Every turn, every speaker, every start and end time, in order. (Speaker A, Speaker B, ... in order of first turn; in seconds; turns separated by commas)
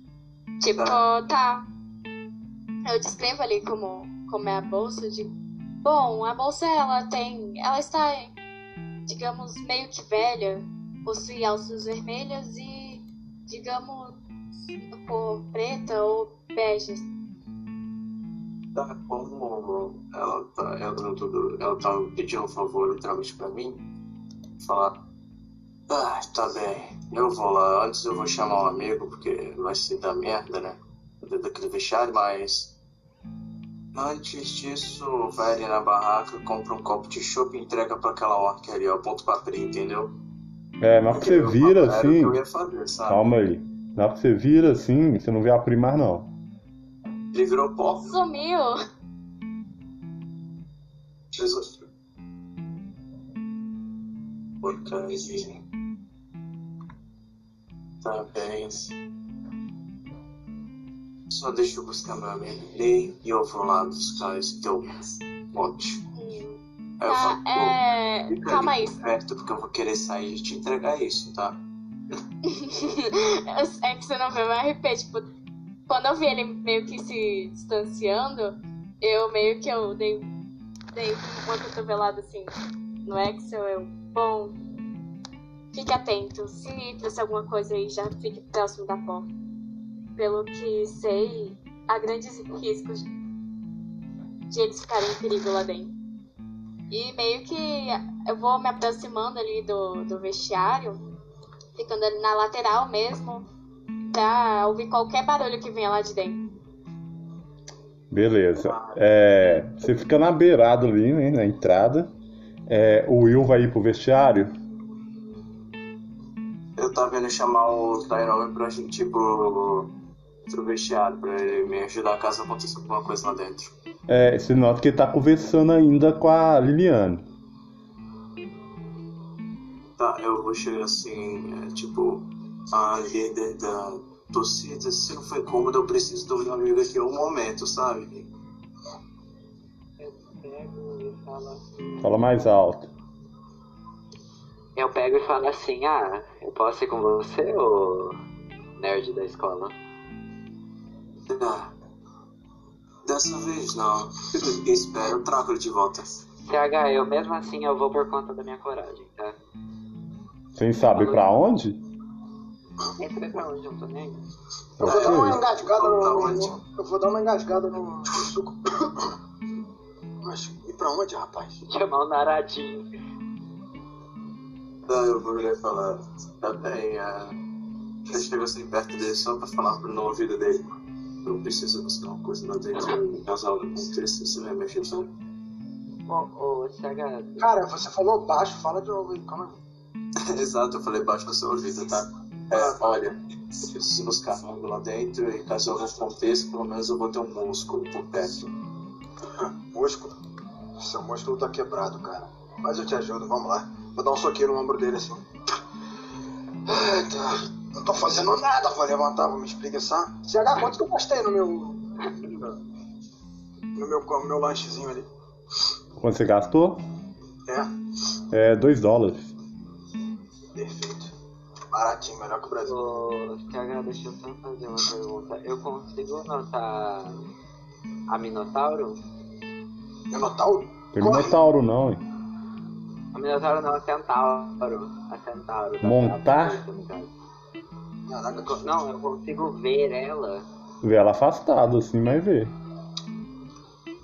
Speaker A: 0.6-1.6, Speaker B: 0.8-1.0, Speaker A: 2.9-5.3, Speaker A: 5.8-8.3, Speaker A: 9.1-14.2, Speaker A: 14.9-17.1, Speaker B: 18.8-23.9, Speaker B: 24.6-25.0, Speaker B: 25.9-32.8, Speaker B: 33.9-40.1, Speaker C: 40.8-42.4, Speaker B: 41.1-43.2, Speaker C: 43.1-46.3, Speaker B: 47.3-48.1, Speaker A: 48.0-48.8, Speaker B: 51.3-51.7, Speaker B: 54.6-55.6, Speaker B: 58.0-59.0, Speaker B: 61.3-66.0, Speaker A: 66.1-69.0, Speaker B: 67.0-71.6, Speaker A: 72.4-75.3, Speaker A: 75.9-80.3, Speaker A: 80.9-82.5, Speaker A: 83.0-84.5, Speaker A: 85.7-89.3, Speaker A: 90.2-93.1, Speaker A: 94.5-95.9, Speaker A: 96.9-101.0, Speaker A: 101.8-103.5, Speaker A: 104.1-106.4, Speaker C: 108.1-112.1, Speaker B: 108.6-109.0, Speaker C: 112.7-114.5, Speaker B: 116.8-119.9, Speaker B: 120.5-123.8, Speaker C: 124.1-127.2, Speaker B: 130.0-138.3, Speaker D: 140.0-142.3, Speaker C: 142.0-142.9, Speaker D: 144.8-148.2, Speaker D: 148.8-149.7, Speaker B: 151.3-151.7, Speaker B: 153.1-156.2, Speaker D: 156.4-159.3, Speaker C: 160.6-161.8, Speaker D: 160.9-161.6, Speaker D: 163.0-164.2, Speaker C: 164.8-165.4, Speaker E: 164.8-169.1, Speaker B: 164.8-166.6, Speaker E: 170.2-171.6, Speaker D: 171.7-172.9, Speaker B: 174.9-177.3, Speaker B: 178.1-180.6, Speaker B: 181.2-185.1, Speaker D: 186.1-187.5, Speaker E: 187.4-189.5, Speaker B: 190.2-198.5, Speaker E: 192.5-192.8, Speaker E: 199.4-200.1, Speaker E: 200.8-205.2, Speaker E: 206.7-212.6, Speaker E: 213.8-215.1, Speaker C: 216.0-216.8, Speaker C: 218.3-219.3, Speaker E: 220.6-221.1, Speaker E: 221.7-222.7, Speaker D: 222.7-227.2, Speaker D: 228.1-229.0, Speaker E: 230.1-231.4, Speaker C: 230.9-232.0, Speaker D: 233.1-237.1, Speaker C: 235.8-236.6, Speaker E: 238.1-238.7, Speaker D: 238.4-240.4, Speaker C: 240.8-242.5